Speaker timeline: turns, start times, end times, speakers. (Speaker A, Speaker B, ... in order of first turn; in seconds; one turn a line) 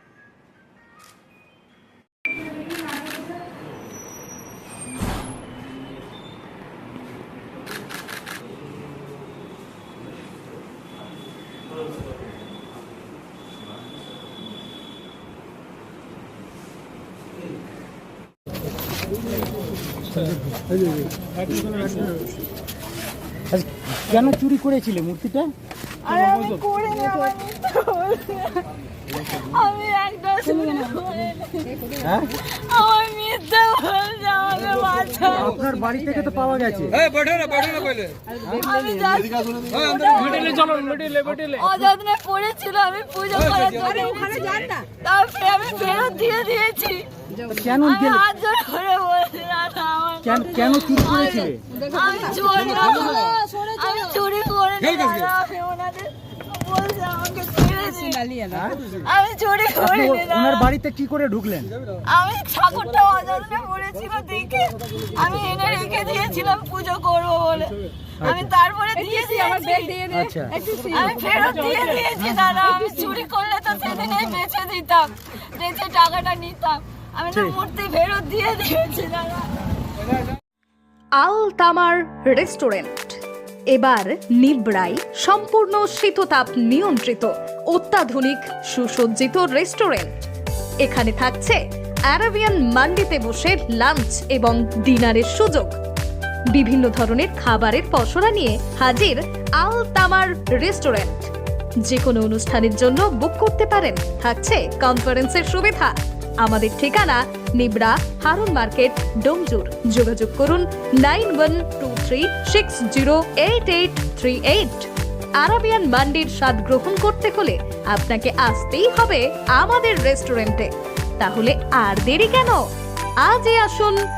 Speaker A: 23.5-25.5
Speaker B: 26.0-28.6
Speaker B: 29.2-31.8
Speaker A: 32.0-32.3
Speaker B: 32.4-35.5
Speaker A: 35.3-37.0
Speaker B: 37.2-47.1
Speaker A: 47.5-48.2
Speaker B: 47.7-58.4
Speaker A: 50.2-51.6
Speaker A: 58.5-58.8
Speaker B: 59.0-60.7
Speaker A: 59.8-61.7
Speaker B: 62.0-79.5
Speaker A: 68.2-68.5
Speaker A: 70.1-70.6
Speaker C: 81.2-83.2
Speaker C: 83.7-90.1
Speaker C: 90.8-91.6
Speaker C: 92.1-95.7
Speaker C: 96.5-101.3
Speaker C: 101.8-114.9
Speaker C: 115.4-122.6
Speaker C: 123.2-124.0